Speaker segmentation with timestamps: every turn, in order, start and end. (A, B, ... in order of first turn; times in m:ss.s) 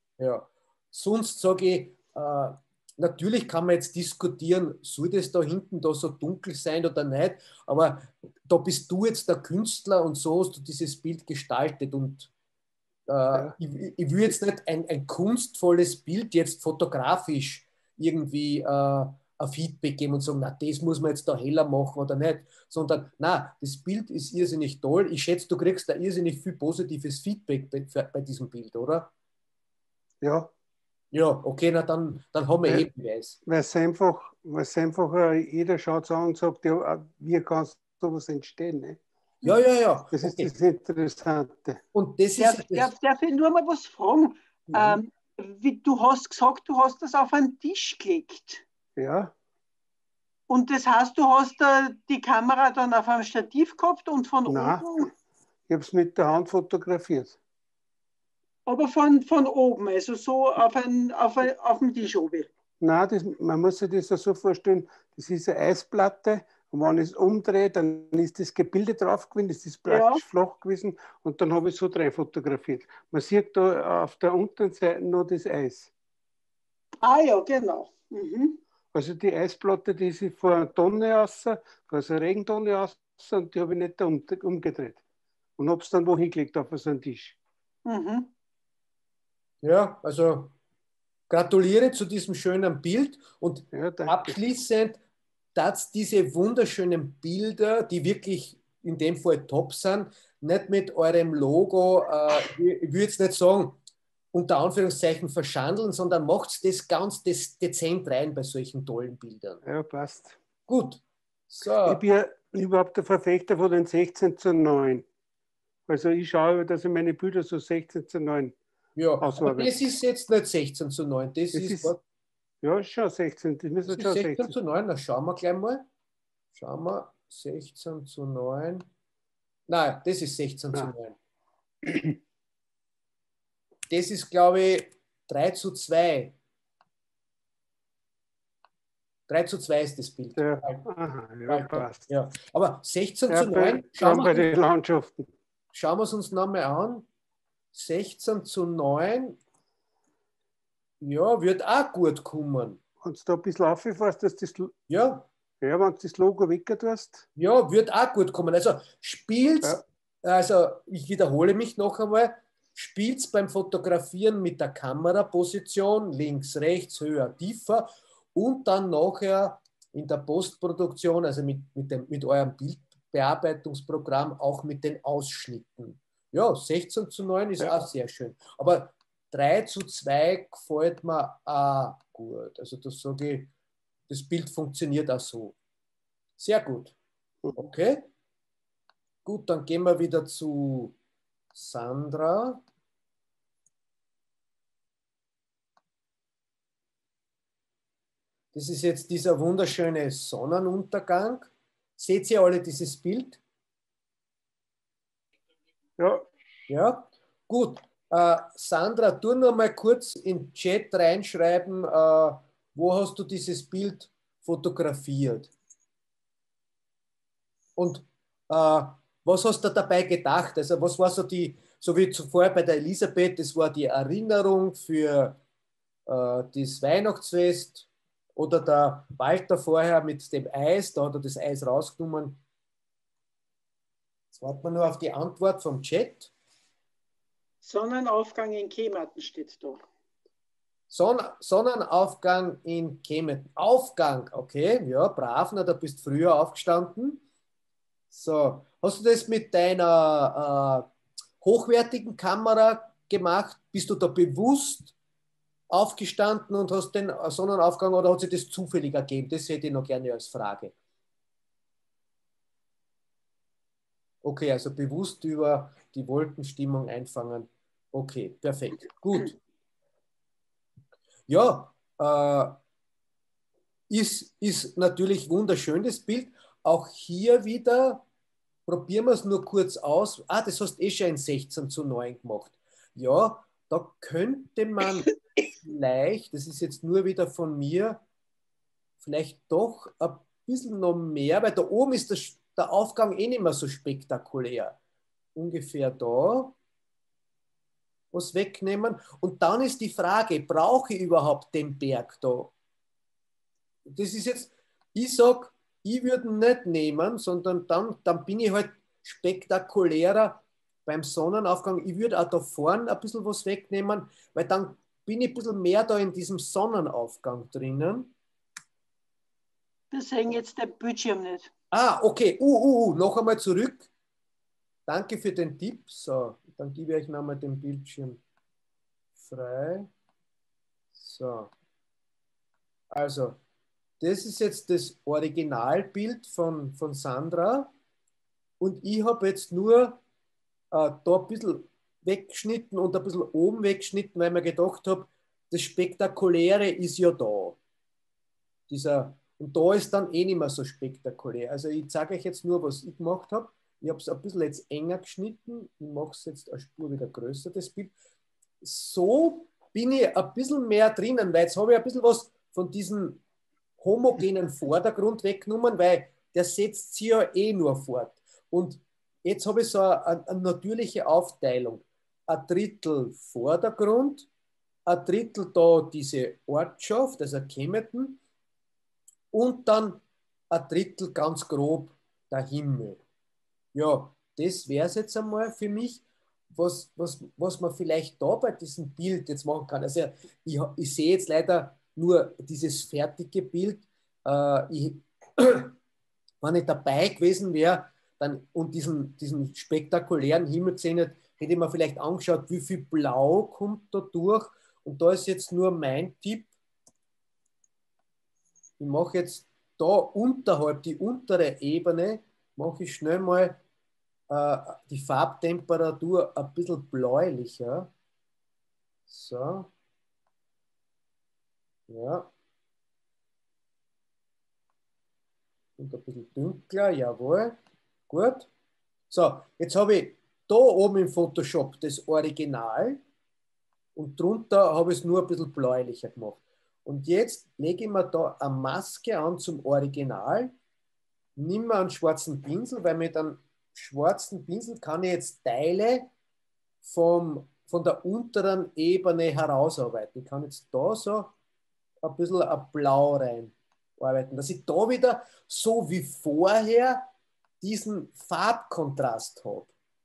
0:00.2-0:12.3 A
0:13.1-0:29.1 A
0:30.2-0:30.5 B
0:31.1-0:33.4 A
0:33.4-0:39.0 B
0:39.4-0:40.5 A
0:40.1-0:41.8 B
0:41.9-0:42.9 A
0:42.4-0:48.6 C
0:44.7-0:45.0 A
0:49.0-0:49.3 B
0:50.5-0:55.1 C
0:54.5-0:54.8 B
0:55.7-0:57.4 B
0:58.6-1:02.5 C
1:02.8-1:15.9 B
1:09.9-1:10.2 C
1:17.0-1:18.6 C
1:18.9-1:25.0 B
1:25.6-1:27.4 B
1:27.8-1:28.3 C
1:29.6-1:30.5 A
1:31.3-1:35.0 A
1:33.7-1:34.4 B
1:35.6-1:43.8 A
1:44.3-1:49.6 A
1:49.6-1:50.4 B
1:50.7-1:52.0 A
1:51.8-1:55.1 B
1:55.9-1:58.6 B
1:59.0-2:02.0 A
1:59.2-1:59.8 B
2:01.5-2:02.0 B
2:02.6-2:04.6 B
2:03.9-2:05.8 A
2:06.6-2:08.9 A
2:09.7-2:11.2 A
2:11.8-2:12.2 B
2:13.9-2:16.4 A
2:19.3-2:20.9 A
2:20.4-2:22.0 B
2:21.5-2:24.5 A
2:23.3-2:25.3 B
2:25.7-2:27.1 A
2:27.7-2:29.4 A
2:31.0-2:32.8 A
2:33.0-2:34.7 B
2:34.9-2:35.3 A
2:35.6-2:37.3 B
2:37.4-3:03.5 A
3:04.1-3:05.6 A
3:06.4-3:07.0 A
3:07.6-3:08.1 A
3:09.2-3:11.0 A
3:11.5-3:12.6 A
3:18.5-3:23.4 A
3:26.0-3:26.2 B
3:26.7-3:35.5 A
3:37.8-3:45.4 A
3:46.1-3:52.4 A
3:54.3-3:56.3 A
3:57.6-3:59.8 C
4:00.9-4:07.2 A
4:08.1-4:10.9 A
4:11.4-4:14.9 A
4:15.7-4:20.7 A
4:24.2-4:29.4 A
4:31.3-4:32.6 A
4:33.9-4:38.0 A
4:38.7-4:48.0 A
4:49.0-4:54.8 A
4:55.4-4:56.6 A
4:58.1-5:02.5 A
5:03.9-5:18.1 A
5:19.9-5:21.5 C
5:21.7-5:23.9 A
5:24.9-5:28.2 A
5:29.2-5:29.9 A
5:31.0-5:31.5 A
5:32.9-5:33.4 A
5:34.0-5:37.7 A
5:38.6-5:40.0 A
5:40.7-5:47.6 A
5:48.7-5:57.9 A
5:58.6-6:03.2 A
6:03.8-6:14.3 A
6:14.9-6:18.2 A
6:19.3-6:23.0 A
6:23.7-6:26.0 A
6:26.5-6:35.8 A
6:36.4-6:46.5 A
6:48.8-6:53.6 A
6:54.3-6:57.9 A
6:59.1-6:59.7 A
7:01.9-7:02.3 A
7:05.8-7:07.6 A
7:08.1-7:08.5 A
7:09.1-7:13.0 A
7:14.0-7:20.5 A
7:21.4-7:26.1 A
7:26.8-7:31.3 A
7:32.0-7:37.1 A
7:37.6-7:39.7 A